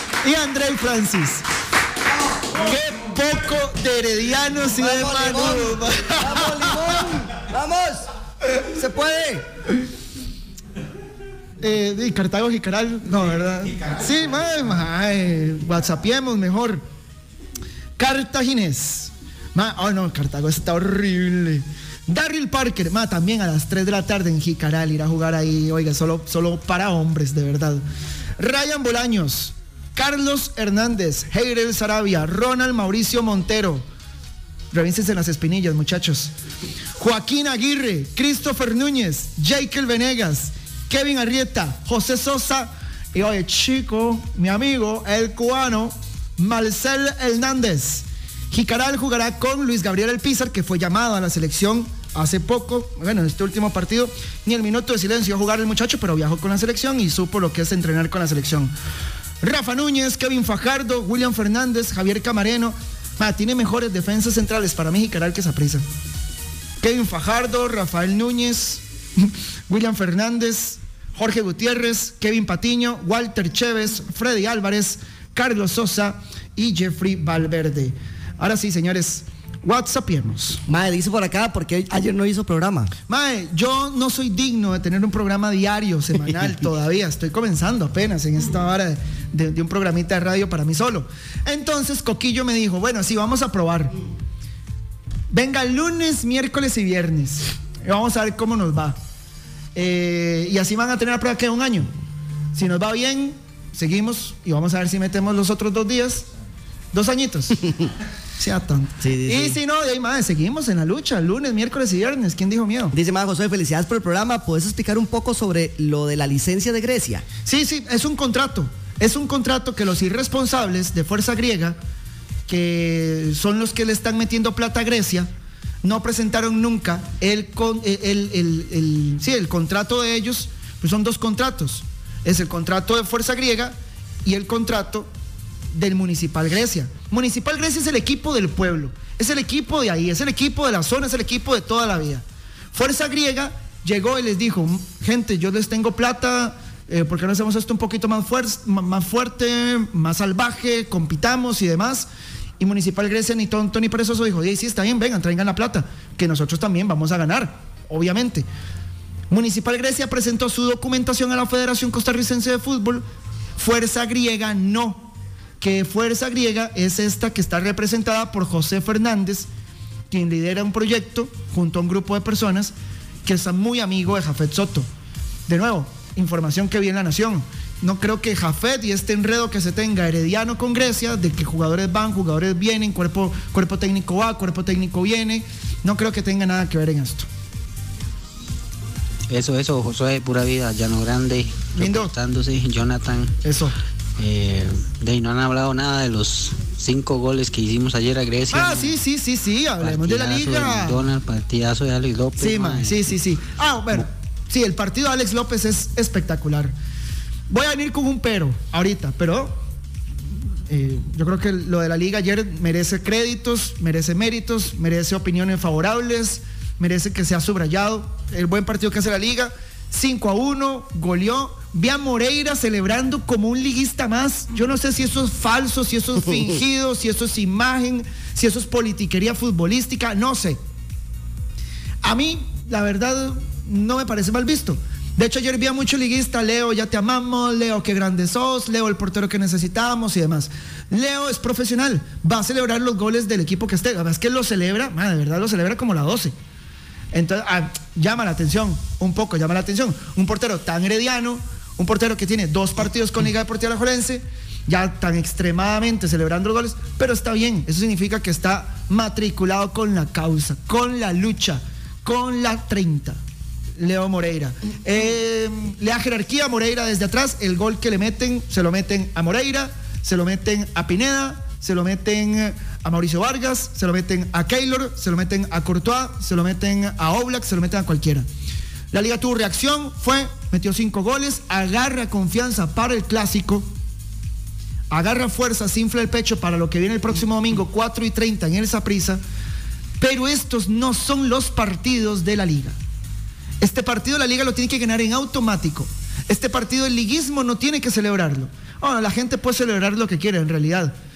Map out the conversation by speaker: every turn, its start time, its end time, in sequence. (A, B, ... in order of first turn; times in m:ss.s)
0:00.2-0:01.4 A
0:02.6-0:07.0 A
0:04.8-0:08.1 B
0:08.7-0:09.5 B
0:11.6-0:16.8 A
0:18.0-0:27.8 A
0:28.4-0:33.8 A
0:34.7-0:36.3 A
0:37.0-0:58.7 A
0:59.4-1:05.8 A
1:06.8-1:20.6 A
1:20.7-1:22.9 B
1:23.1-1:34.0 A
1:35.3-1:39.0 A
1:39.8-1:41.9 A
1:42.6-1:46.2 A
1:46.9-1:47.6 A
1:48.4-1:53.0 A
1:49.0-1:49.6 B
1:52.9-1:57.3 B
1:57.5-2:01.8 A
2:02.5-2:05.3 A
2:05.8-2:15.1 A
2:15.7-2:32.1 A
2:32.6-2:38.5 A
2:39.3-2:43.0 A
2:43.6-2:49.5 A
2:50.1-2:52.7 A
2:53.2-2:54.9 A
2:55.5-3:07.3 A
3:09.3-3:13.4 C
3:11.8-3:12.1 A
3:13.4-3:13.8 A
3:14.2-3:19.0 C
3:18.5-3:21.0 A
3:19.8-3:23.0 C
3:22.4-3:26.7 A
3:27.5-3:29.6 A
3:30.7-3:50.6 A
3:52.0-4:06.3 A
4:07.1-4:23.2 A
4:23.8-4:38.3 A
4:38.9-4:43.7 A
4:44.9-4:49.2 A
4:50.0-4:52.8 A
4:53.6-5:00.9 A